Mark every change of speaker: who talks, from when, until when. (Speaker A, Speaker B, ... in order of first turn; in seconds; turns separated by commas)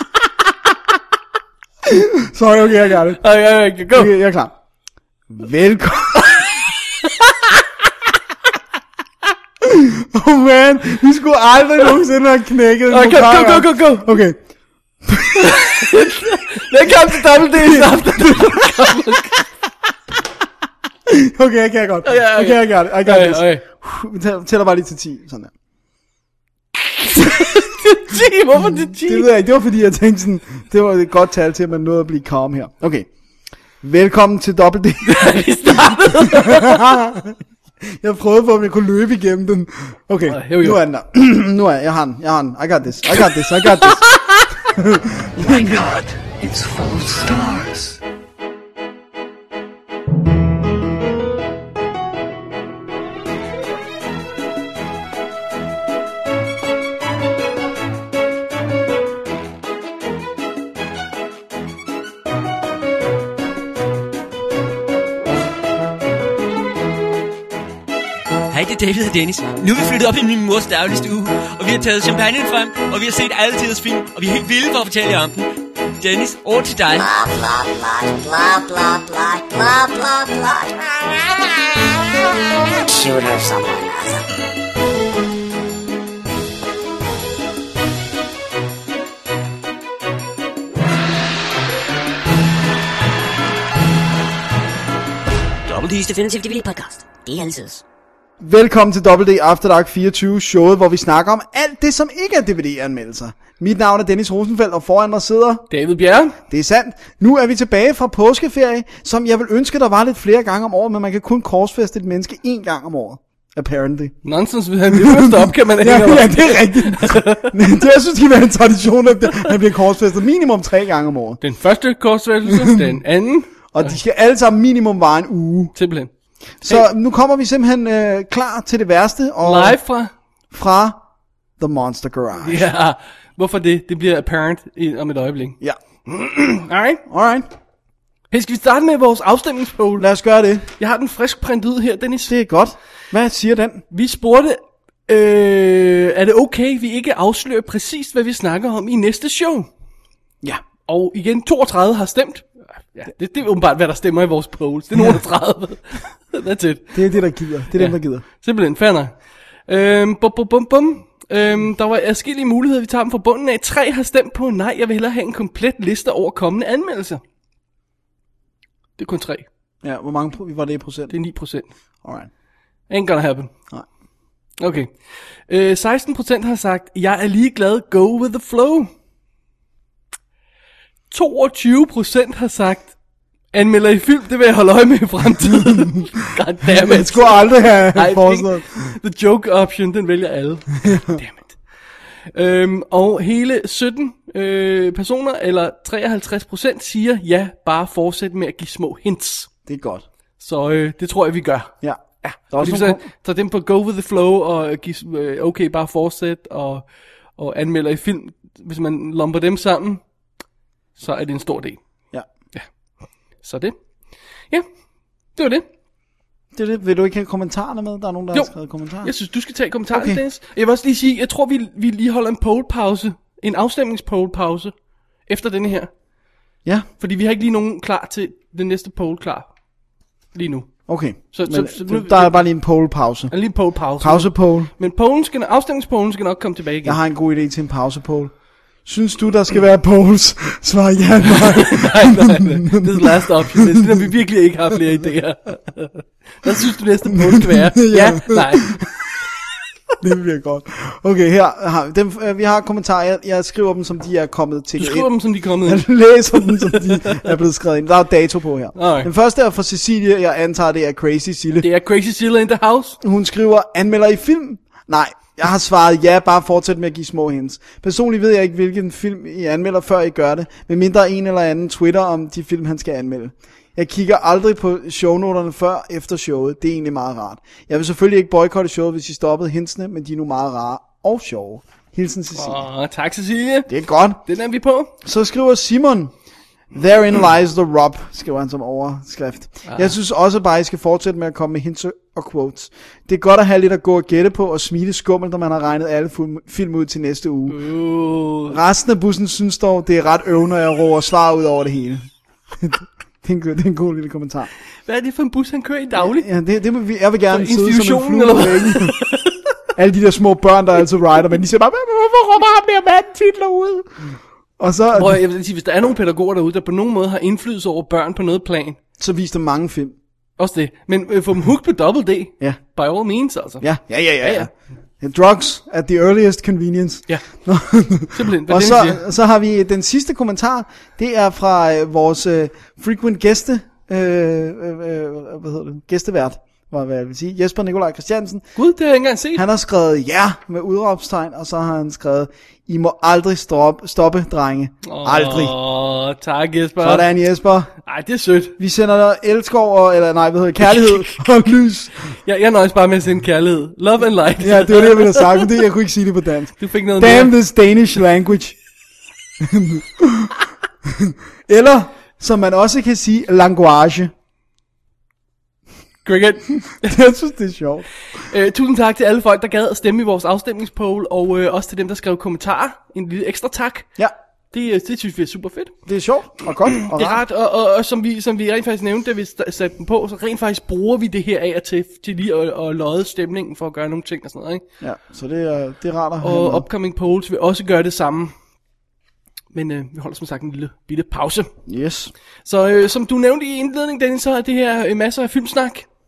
Speaker A: 1.8-3.2, Speaker B: 3.2-4.1, Speaker A: 3.9-4.5, Speaker A: 5.3-6.4, Speaker A: 9.6-14.4, Speaker B: 12.9-14.1, Speaker A: 15.0-15.7, Speaker B: 15.4-19.4, Speaker A: 16.8-18.9, Speaker A: 21.1-25.5, Speaker B: 22.0-23.6, Speaker B: 27.1-29.3, Speaker A: 29.0-33.1, Speaker A: 33.8-37.4, Speaker B: 35.0-36.8, Speaker A: 37.9-44.1, Speaker B: 40.3-40.8, Speaker B: 44.1-44.4, Speaker A: 44.7-45.8, Speaker C: 45.4-48.0, Speaker D: 68.5-75.5, Speaker D: 76.0-77.1, Speaker E: 77.0-80.7, Speaker E: 82.7-84.2, Speaker D: 95.7-96.1, Speaker E: 96.3-97.6, Speaker A: 98.4-105.7, Speaker B: 105.7-106.4, Speaker A: 106.5-114.2, Speaker B: 114.2-117.5, Speaker A: 114.9-121.4, Speaker B: 121.4-124.0, Speaker A: 122.5-122.9, Speaker A: 123.7-125.7, Speaker B: 125.7-126.1, Speaker A: 126.6-129.8, Speaker B: 129.4-130.1, Speaker A: 130.5-131.0, Speaker A: 131.6-132.7, Speaker B: 132.4-137.0, Speaker A: 137.1-137.5, Speaker B: 138.3-140.1, Speaker A: 140.0-140.7, Speaker B: 140.8-142.3, Speaker A: 142.3-143.8, Speaker B: 143.9-149.7, Speaker B: 150.9-156.9, Speaker A: 154.9-155.2, Speaker A: 156.9-158.2, Speaker B: 157.7-159.1, Speaker B: 159.7-167.2, Speaker B: 169.0-169.5, Speaker A: 169.8-171.1, Speaker B: 171.1-171.7, Speaker A: 172.0-172.3, Speaker B: 172.9-173.5, Speaker B: 174.6-178.9, Speaker B: 181.1-182.9, Speaker B: 183.5-191.6, Speaker A: 185.5-186.0, Speaker A: 186.7-188.7, Speaker B: 192.3-199.5, Speaker A: 199.7-200.0, Speaker B: 200.4-201.7, Speaker A: 201.8-203.1, Speaker B: 202.3-206.8, Speaker B: 207.3-210.0, Speaker B: 211.0-211.8, Speaker B: 213.4-213.8, Speaker B: 215.3-215.7, Speaker A: 216.5-219.1, Speaker B: 218.3-224.7, Speaker A: 219.9-220.2, Speaker B: 225.2-225.9, Speaker B: 227.0-229.5, Speaker B: 230.3-232.5, Speaker A: 230.9-234.7, Speaker B: 233.3-237.0, Speaker A: 236.8-244.1, Speaker B: 241.2-248.8, Speaker A: 247.2-248.9, Speaker A: 250.0-255.1, Speaker B: 254.8-257.3, Speaker A: 255.6-261.7, Speaker B: 258.7-259.1, Speaker B: 261.6-263.0, Speaker A: 263.0-282.6, Speaker B: 282.3-283.7, Speaker A: 283.7-284.2, Speaker B: 284.2-284.9, Speaker A: 285.0-286.1, Speaker A: 286.7-297.6, Speaker B: 289.7-289.9, Speaker B: 297.5-298.6, Speaker A: 298.5-304.5, Speaker B: 304.9-306.3, Speaker A: 306.0-309.0, Speaker B: 307.3-309.4, Speaker A: 309.7-315.2, Speaker B: 314.9-318.8, Speaker A: 319.0-319.9, Speaker B: 320.4-323.7, Speaker A: 323.6-338.5, Speaker B: 324.2-324.5, Speaker B: 328.1-329.0, Speaker B: 338.6-339.4, Speaker A: 339.3-345.5, Speaker B: 344.8-347.1, Speaker A: 346.8-347.7, Speaker B: 347.8-348.6, Speaker A: 348.6-351.9, Speaker B: 350.7-351.1, Speaker B: 352.2-355.5, Speaker A: 354.4-358.6, Speaker B: 356.6-357.4, Speaker A: 359.4-360.3, Speaker A: 360.9-364.1, Speaker B: 366.0-367.0, Speaker A: 366.8-367.9, Speaker B: 368.1-373.9, Speaker B: 374.5-375.7, Speaker A: 375.9-377.2, Speaker B: 376.7-384.6, Speaker A: 384.8-386.6, Speaker B: 386.2-388.3, Speaker B: 389.5-391.5, Speaker A: 391.7-392.1, Speaker B: 392.4-395.9